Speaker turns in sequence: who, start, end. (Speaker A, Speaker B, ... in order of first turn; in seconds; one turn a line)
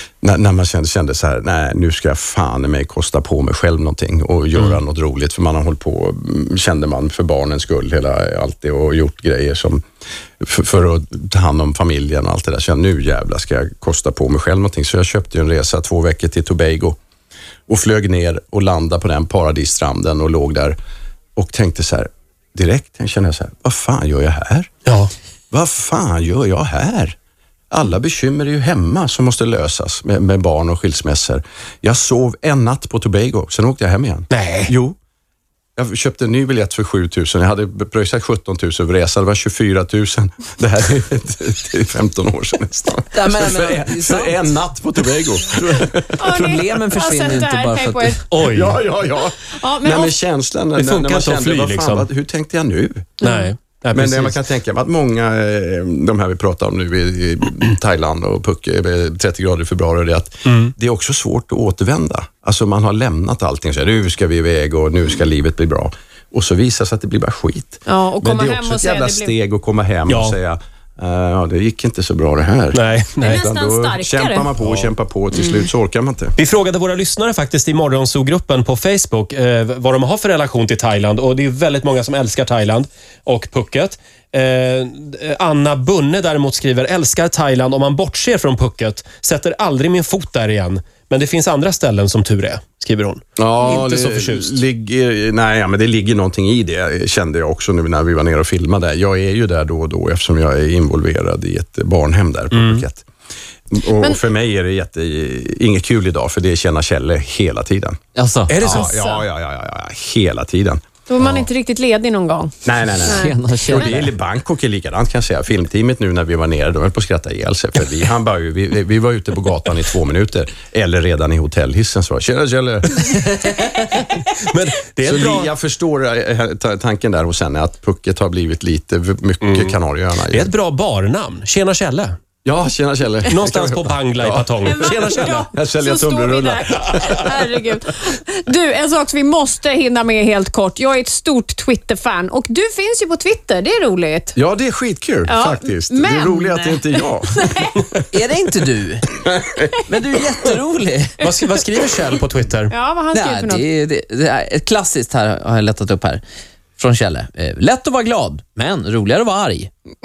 Speaker A: 0.2-9.8
Speaker A: 10.4-17.0
Speaker A: 17.7-20.8
Speaker A: 21.4-24.7
Speaker B: 24.9-25.1
Speaker A: 25.5-27.1
Speaker A: 27.7-35.0
Speaker B: 34.3-34.7
Speaker A: 35.8-47.1
Speaker C: 43.1-44.4
Speaker D: 46.2-48.3
Speaker C: 46.2-48.2
Speaker B: 48.3-48.8
Speaker A: 48.5-53.2
Speaker D: 49.5-50.1
Speaker B: 50.8-52.1
Speaker D: 53.2-53.5
Speaker B: 53.2-54.4
Speaker A: 53.9-76.4
Speaker B: 60.5-60.7
Speaker D: 67.9-69.3
Speaker B: 70.1-70.4
Speaker B: 72.7-73.4
Speaker D: 73.2-74.5
Speaker B: 76.4-94.6
Speaker A: 93.4-103.1
Speaker B: 102.5-102.8
Speaker A: 103.7-108.0
Speaker C: 108.2-108.6
Speaker B: 108.5-109.1
Speaker A: 108.6-110.8
Speaker D: 108.7-109.2
Speaker D: 111.1-114.1
Speaker A: 112.7-123.5
Speaker C: 113.0-114.1
Speaker B: 124.4-125.5
Speaker A: 125.0-130.5
Speaker B: 129.4-129.7
Speaker B: 130.3-132.2
Speaker A: 132.4-137.5
Speaker B: 133.3-135.5
Speaker D: 134.6-144.3
Speaker A: 144.3-147.5
Speaker D: 145.3-147.9
Speaker C: 148.1-149.1
Speaker A: 149.2-149.6
Speaker C: 149.9-151.3
Speaker B: 151.2-152.7
Speaker D: 152.7-153.6
Speaker C: 153.1-156.2
Speaker C: 156.8-159.7